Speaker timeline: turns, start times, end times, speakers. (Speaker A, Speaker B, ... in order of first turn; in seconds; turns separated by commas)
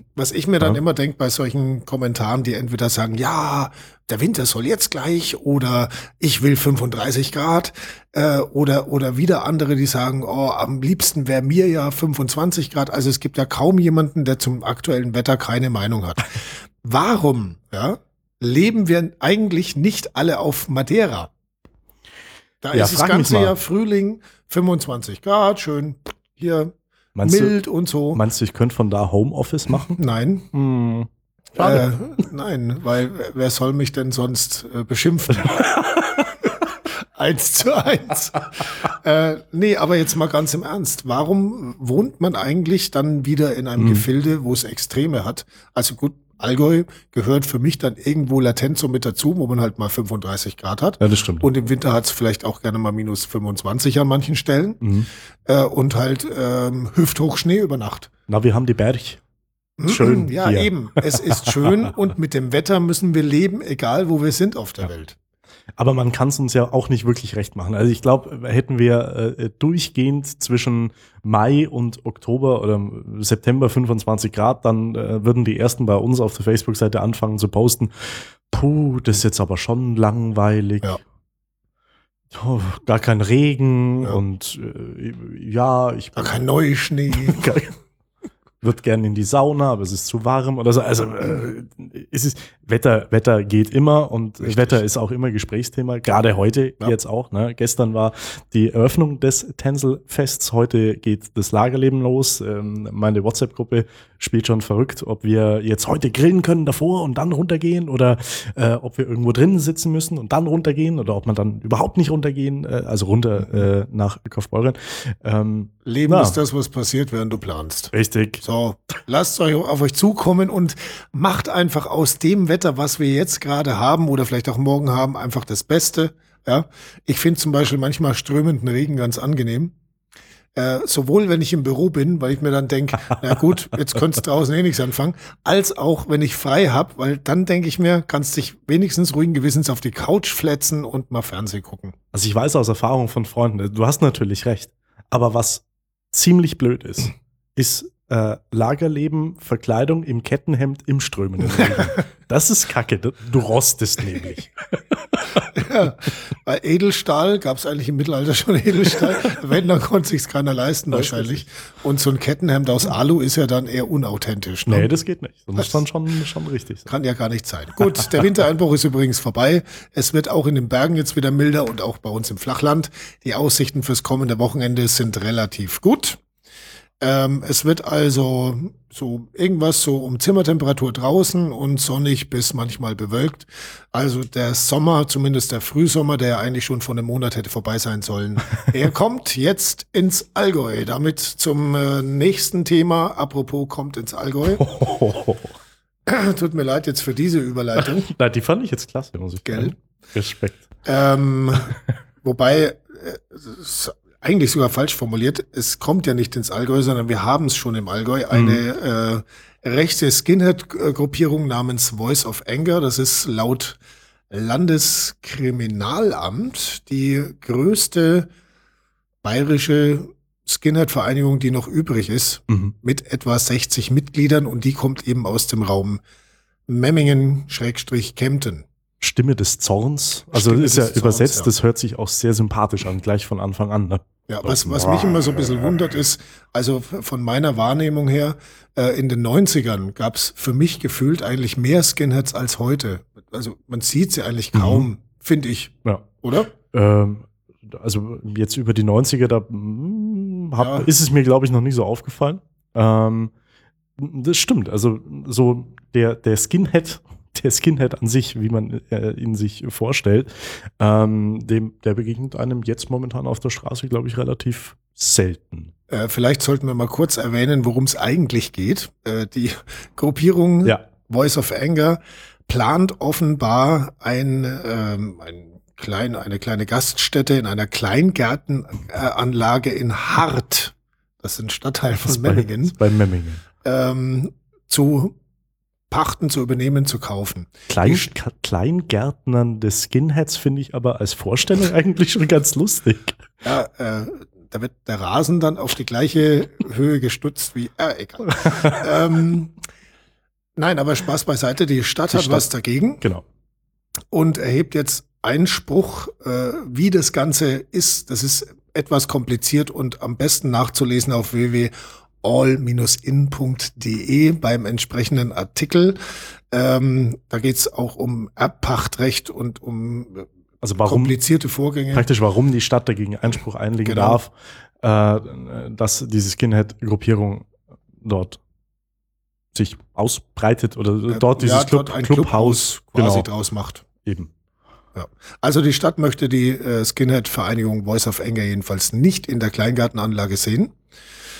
Speaker A: 0.1-21.3, Speaker A: 22.6-28.2, Speaker B: 22.7-23.5, Speaker B: 27.1-27.5, Speaker B: 28.1-30.0, Speaker A: 29.9-30.5, Speaker B: 30.5-31.9, Speaker A: 31.6-35.8, Speaker B: 35.5-36.3, Speaker A: 37.1-54.8, Speaker B: 43.8-44.0, Speaker B: 51.0-51.5, Speaker B: 54.8-55.1, Speaker A: 55.5-58.1, Speaker B: 58.3-59.2, Speaker A: 59.8-65.2, Speaker B: 59.8-61.5, Speaker B: 65.8-81.0, Speaker B: 82.3-86.4, Speaker A: 86.1-87.5, Speaker B: 87.1-87.8, Speaker B: 88.6-116.4, Speaker A: 94.4-94.8, Speaker A: 113.4-113.7, Speaker A: 115.8-129.7, Speaker B: 117.9-118.4, Speaker A: 130.5-141.9, Speaker B: 142.1-155.5, Speaker A: 155.5-164.9, Speaker B: 160.9-161.4, Speaker B: 164.7-166.9, Speaker A: 165.6-165.8, Speaker A: 166.9-176.2, Speaker A: 177.0-194.7, Speaker B: 194.6-195.5, Speaker A: 196.1-198.1, Speaker B: 197.8-200.7, Speaker A: 199.4-199.8, Speaker A: 200.8-213.8, Speaker B: 208.3-208.6, Speaker A: 214.3-218.3, Speaker A: 219.2-226.0, Speaker A: 226.7-228.6, Speaker B: 229.0-235.2, Speaker A: 230.3-231.5, Speaker A: 234.3-246.5, Speaker B: 244.5-244.9, Speaker B: 245.8-253.3, Speaker A: 250.6-250.9, Speaker B: 254.0-265.7, Speaker A: 265.9-282.8, Speaker B: 282.0-283.4, Speaker A: 283.6-285.1, Speaker A: 285.9-288.1, Speaker B: 287.7-293.2, Speaker A: 293.4-299.6, Speaker B: 298.4-298.9, Speaker A: 300.6-303.0, Speaker B: 302.1-302.4, Speaker A: 304.1-316.0, Speaker A: 316.5-320.3, Speaker B: 320.6-321.1, Speaker A: 320.8-322.1, Speaker B: 321.9-327.5, Speaker A: 323.8-324.2, Speaker B: 328.0-328.4, Speaker B: 329.5-333.2, Speaker A: 331.1-333.8, Speaker B: 334.0-334.3, Speaker A: 334.9-340.8